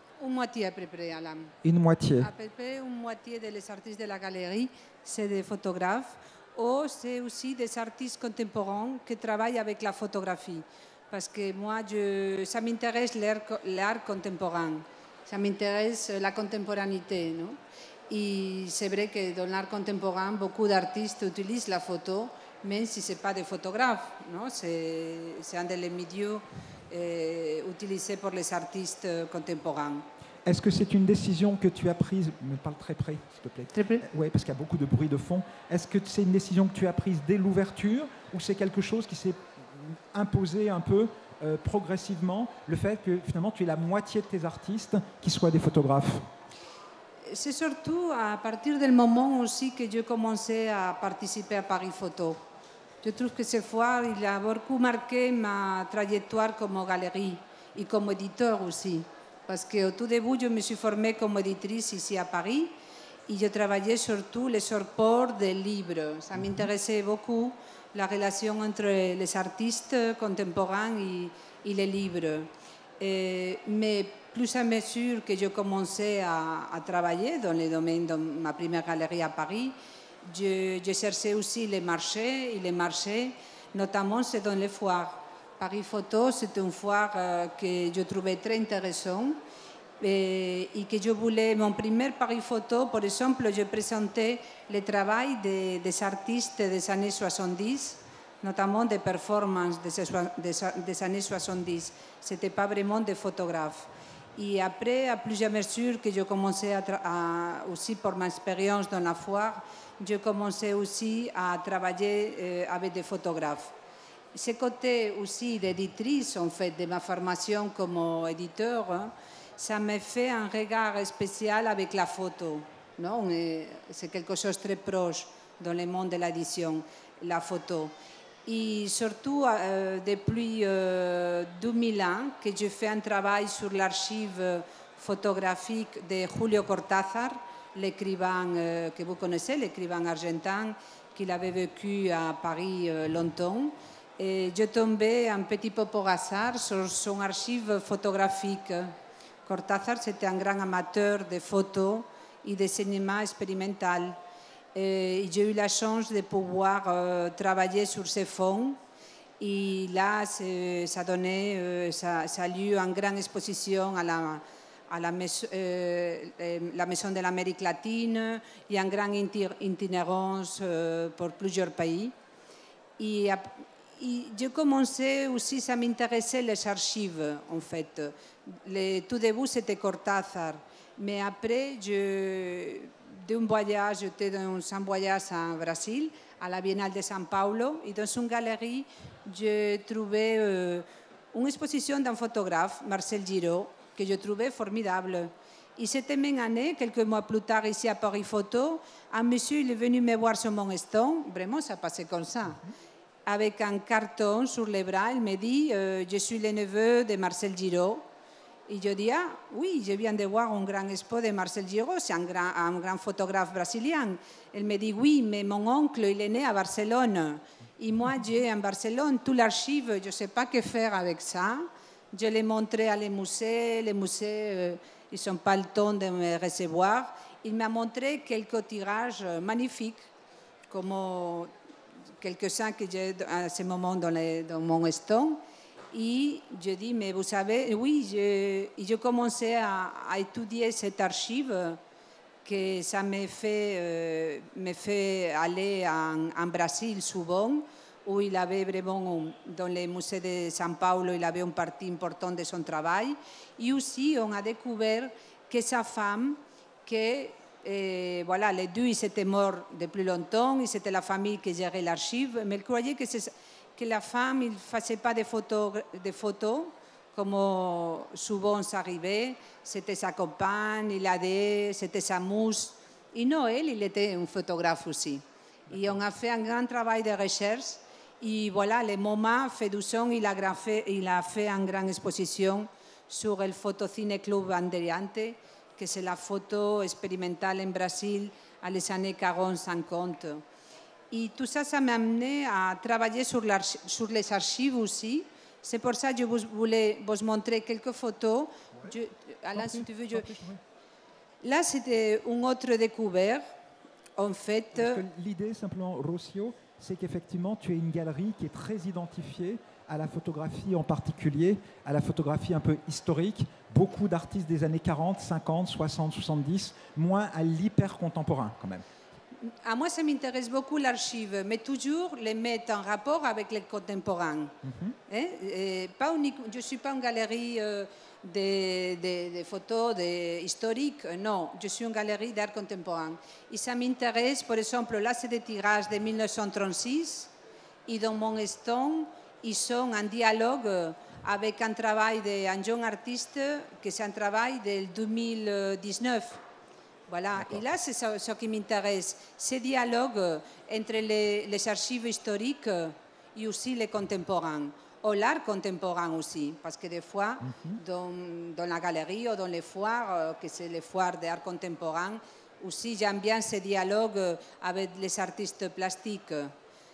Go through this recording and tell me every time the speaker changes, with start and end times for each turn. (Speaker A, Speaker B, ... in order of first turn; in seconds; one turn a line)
Speaker A: 0.2-1.5
Speaker B: 1.6-2.3
Speaker A: 2.2-17.6
Speaker A: 18.1-30.1
Speaker B: 30.5-46.3
Speaker A: 33.7-34.0
Speaker A: 47.3-52.4
Speaker A: 53.0-62.8
Speaker A: 63.3-89.4
Speaker A: 90.0-113.7
Speaker A: 114.3-127.9
Speaker A: 128.5-148.9
Speaker A: 149.5-154.2
Speaker A: 154.7-158.8
Speaker A: 159.4-172.2
Speaker A: 173.0-202.6
Speaker A: 203.3-208.1
Speaker A: 208.7-230.1
Speaker A: 230.7-231.5
Speaker A: 232.2-241.8
Speaker A: 242.4-290.4
Speaker B: 275.7-276.0
Speaker A: 291.1-300.3
Speaker B: 299.6-300.6
Speaker A: 301.4-303.4
Speaker A: 304.2-305.0
Speaker B: 304.8-318.9
Speaker A: 319.4-324.6
Speaker B: 324.6-325.0
Speaker A: 325.1-337.3
Speaker A: 337.9-346.4
Speaker A: 347.1-366.5
Speaker B: 357.4-357.8